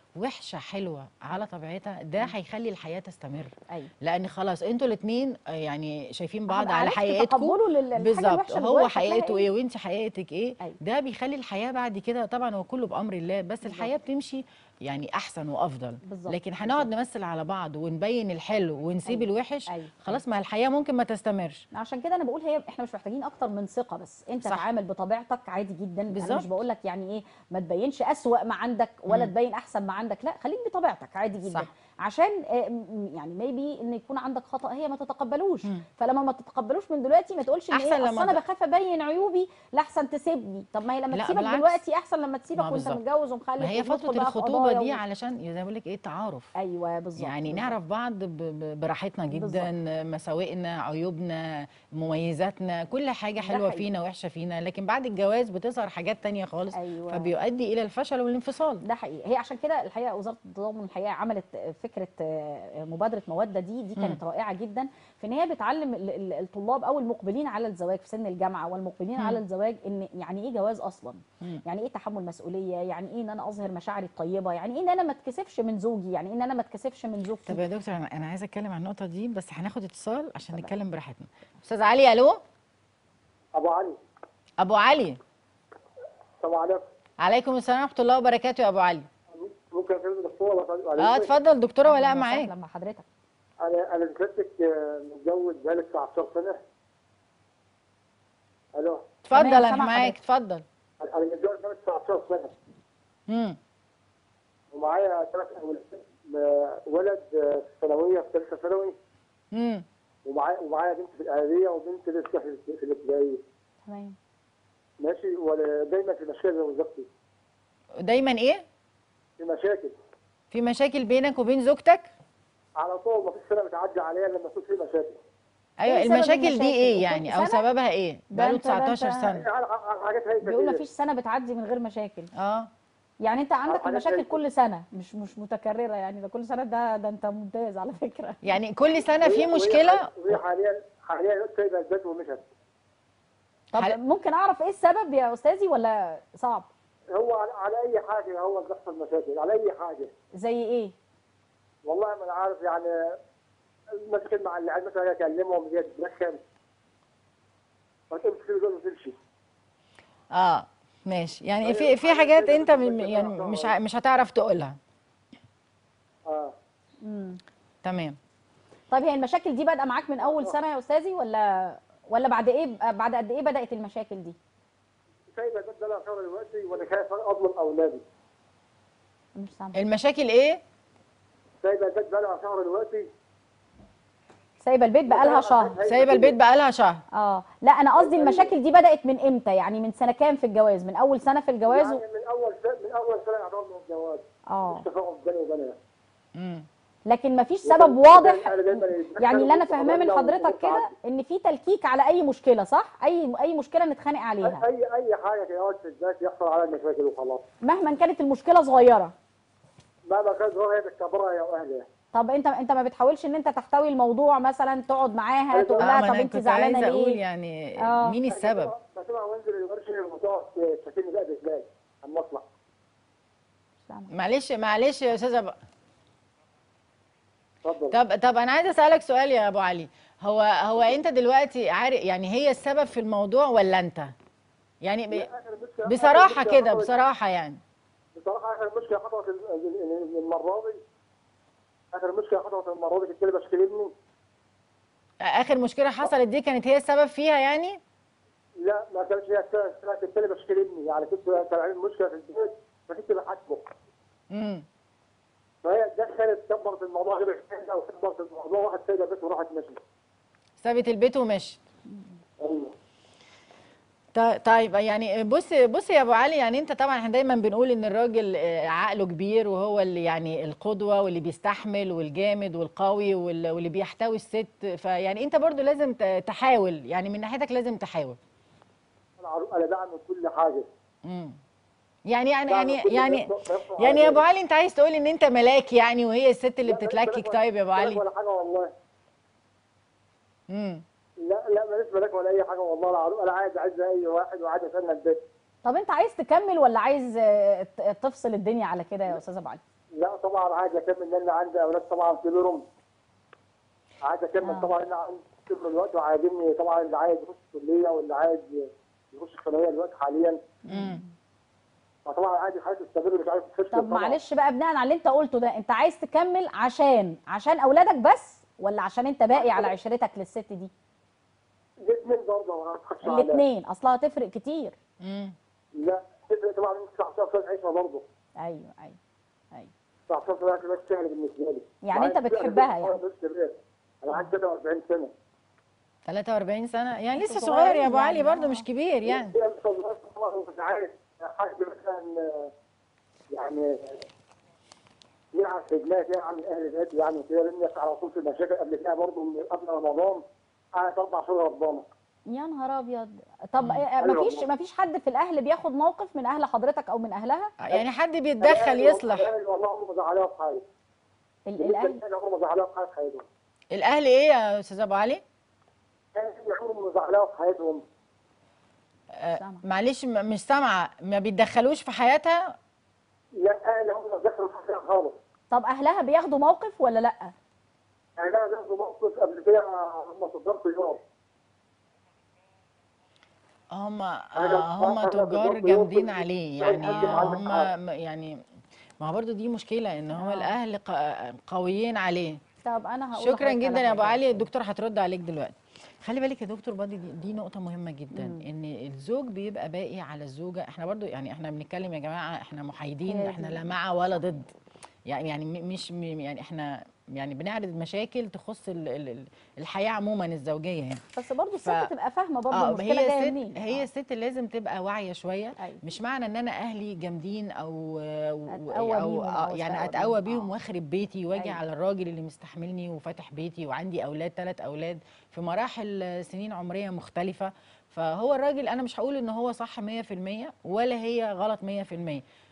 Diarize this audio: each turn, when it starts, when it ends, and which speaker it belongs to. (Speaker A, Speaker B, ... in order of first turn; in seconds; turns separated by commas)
Speaker A: 0.2-21.6, Speaker B: 6.5-9.5, Speaker B: 13.6-13.9, Speaker B: 16.0-16.9, Speaker B: 19.1-20.1, Speaker B: 21.7-45.0, Speaker A: 26.1-26.5, Speaker A: 37.7-38.4, Speaker A: 41.1-41.8, Speaker A: 42.5-43.0, Speaker A: 43.6-46.5, Speaker B: 46.5-47.7, Speaker A: 47.2-58.8, Speaker B: 49.3-49.7, Speaker B: 53.4-53.9, Speaker B: 56.7-57.3, Speaker B: 58.8-77.6, Speaker A: 77.5-82.4, Speaker C: 83.5-84.0, Speaker A: 84.6-85.2, Speaker C: 86.4-86.8, Speaker A: 87.2-89.1, Speaker C: 89.3-91.3, Speaker A: 91.0-92.5, Speaker B: 91.8-93.0, Speaker C: 93.6-96.6, Speaker C: 98.7-99.1, Speaker A: 99.2-100.6, Speaker B: 99.3-100.1, Speaker C: 101.0-102.5, Speaker A: 103.3-103.6, Speaker C: 104.7-109.0, Speaker A: 109.5-109.8, Speaker C: 110.2-113.4, Speaker B: 113.8-114.2, Speaker C: 115.0-117.1, Speaker A: 118.0-118.6, Speaker C: 119.4-119.9, Speaker A: 120.5-122.1, Speaker C: 122.8-125.2, Speaker A: 125.8-129.5, Speaker B: 125.9-127.6, Speaker B: 128.3-129.3, Speaker C: 129.3-130.8, Speaker B: 130.4-132.3, Speaker A: 132.3-132.7, Speaker B: 133.2-138.4, Speaker C: 133.7-134.4, Speaker A: 138.4-140.4, Speaker C: 139.2-142.5, Speaker B: 143.7-146.7, Speaker C: 147.1-150.1, Speaker B: 150.4-150.9, Speaker C: 151.8-152.9, Speaker C: 153.9-156.4, Speaker C: 158.1-159.2, Speaker A: 160.3-164.8, Speaker C: 161.6-163.7, Speaker C: 166.3-166.5, Speaker B: 167.0-167.4, Speaker A: 167.8-168.2, Speaker B: 168.9-174.3, Speaker C: 170.2-170.5, Speaker C: 175.3-178.0, Speaker B: 179.3-179.8, Speaker A: 179.7-180.6, Speaker C: 181.6-183.1, Speaker B: 184.6-185.8, Speaker C: 185.1-186.3, Speaker A: 185.8-187.0, Speaker B: 187.1-192.0, Speaker C: 188.0-188.5, Speaker C: 191.7-195.8, Speaker B: 194.5-194.8, Speaker A: 196.3-196.7, Speaker B: 197.1-204.6, Speaker C: 197.7-200.9, Speaker C: 204.4-207.4, Speaker B: 207.6-209.1, Speaker C: 210.1-211.9, Speaker B: 212.1-217.2, Speaker C: 215.5-215.9, Speaker A: 215.8-218.7, Speaker B: 217.8-218.2, Speaker C: 218.3-222.4, Speaker A: 224.1-225.6, Speaker C: 227.6-227.9, Speaker A: 227.9-234.1, Speaker A: 234.8-235.3, Speaker C: 235.1-236.9, Speaker A: 235.8-237.6, Speaker C: 238.2-240.8, Speaker C: 241.9-243.9, Speaker A: 245.2-247.8, Speaker C: 248.6-253.7, Speaker A: 254.3-254.7, Speaker C: 255.6-259.8, Speaker A: 260.6-261.6, Speaker C: 262.4-262.7, Speaker A: 264.1-278.2, Speaker C: 279.2-280.7, Speaker A: 281.0-281.4, Speaker A: 282.1-288.0, Speaker C: 282.5-284.2, Speaker C: 286.6-288.7, Speaker A: 290.5-290.8, Speaker C: 291.2-295.2, Speaker B: 295.6-299.6, Speaker C: 300.0-302.7, Speaker C: 304.0-310.4, Speaker B: 304.4-304.7, Speaker B: 310.6-311.1, Speaker A: 310.7-311.0, Speaker C: 312.1-314.2, Speaker B: 313.7-320.7, Speaker C: 319.4-319.7, Speaker C: 321.8-323.4, Speaker B: 323.0-324.8, Speaker A: 325.0-325.4, Speaker C: 325.8-328.0, Speaker B: 328.4-329.0, Speaker C: 330.1-335.1, Speaker B: 331.8-333.0, Speaker A: 336.1-339.4, Speaker B: 337.1-338.6, Speaker C: 339.1-342.5, Speaker C: 343.3-344.0, Speaker C: 345.3-350.2, Speaker C: 350.8-351.9, Speaker B: 352.3-357.5, Speaker C: 354.0-354.4, Speaker A: 357.6-359.3, Speaker C: 358.4-360.6, Speaker B: 361.4-362.0, Speaker C: 361.6-363.2, Speaker A: 363.7-365.2, Speaker C: 366.1-367.8, Speaker A: 369.1-372.5, Speaker B: 369.3-369.6, Speaker C: 373.4-375.2, Speaker B: 375.5-377.3, Speaker C: 378.2-381.0, Speaker A: 383.7-388.4, Speaker C: 384.4-387.7, Speaker B: 386.8-387.2, Speaker A: 389.0-392.4, Speaker B: 390.1-390.5, Speaker B: 392.6-394.4, Speaker A: 393.1-404.5, Speaker B: 398.1-398.4, Speaker B: 403.1-403.6, Speaker A: 405.1-411.0, Speaker B: 411.1-413.9, Speaker A: 412.5-432.2, Speaker B: 418.5-420.5